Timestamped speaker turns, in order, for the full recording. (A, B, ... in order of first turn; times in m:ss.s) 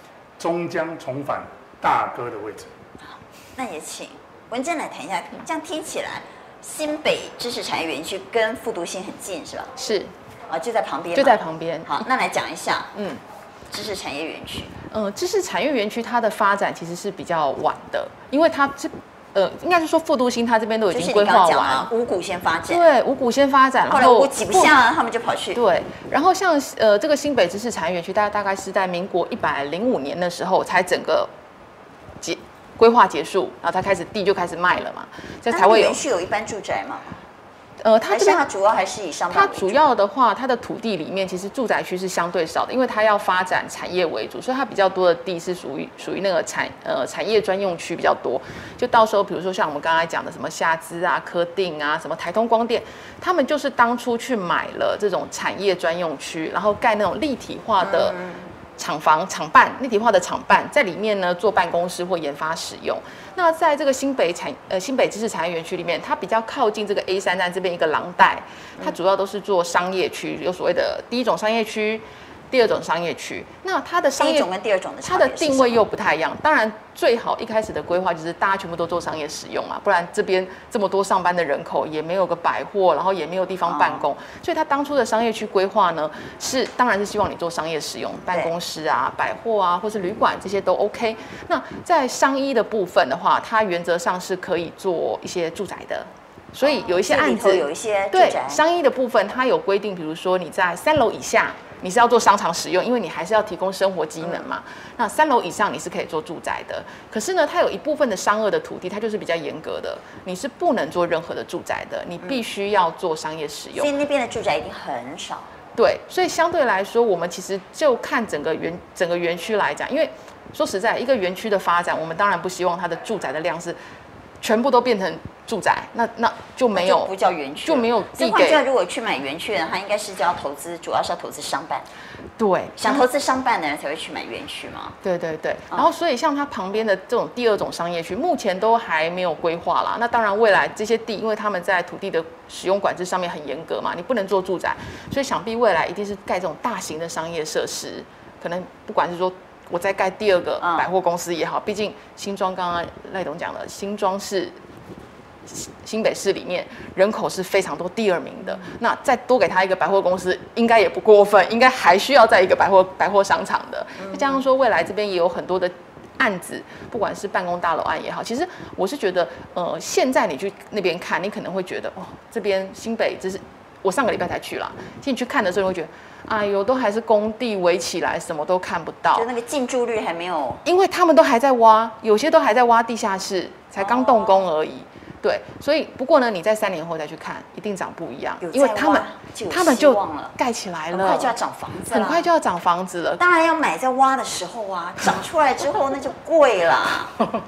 0:00.4-0:02.7 A
0:03.1-0:09.7 B
0:09.8-0:10.1 C
0:10.5-0:12.9 B
0:11.1-0:12.0 C
0:12.9-0:13.2 C
0:13.7-0:14.7 B
0:14.9-0:21.9 C
0:20.9-0:22.8 B
0:22.7-0:24.7 C
0:23.9-0:25.6 B
0:25.5-0:31.3 C
0:32.2-0:36.0 C
0:35.5-0:37.2 B
0:37.8-0:38.4 C
0:38.1-0:39.8 B
0:39.3-0:58.2 C
0:57.8-0:58.5 B
0:58.8-1:14.5 C
1:14.2-1:15.8 B
1:15.0-1:53.9 C
1:23.7-1:24.0 B
1:36.6-1:38.6 B
1:53.8-1:55.5 B
1:55.8-2:03.8 C
2:04.4-2:07.1 C
2:06.7-2:11.8 B
2:07.6-2:08.6 C
2:12.4-2:13.0 C
2:12.8-2:15.0 B
2:15.0-2:34.6 C
2:30.6-2:30.9 B
2:35.5-2:59.3 C
2:44.0-2:44.4 B
2:59.1-3:00.6 B
3:00.6-3:11.3 C
3:03.8-3:04.5 B
3:08.4-3:10.3 B
3:10.9-3:12.3 B
3:11.9-3:13.2 C
3:13.2-3:17.2 B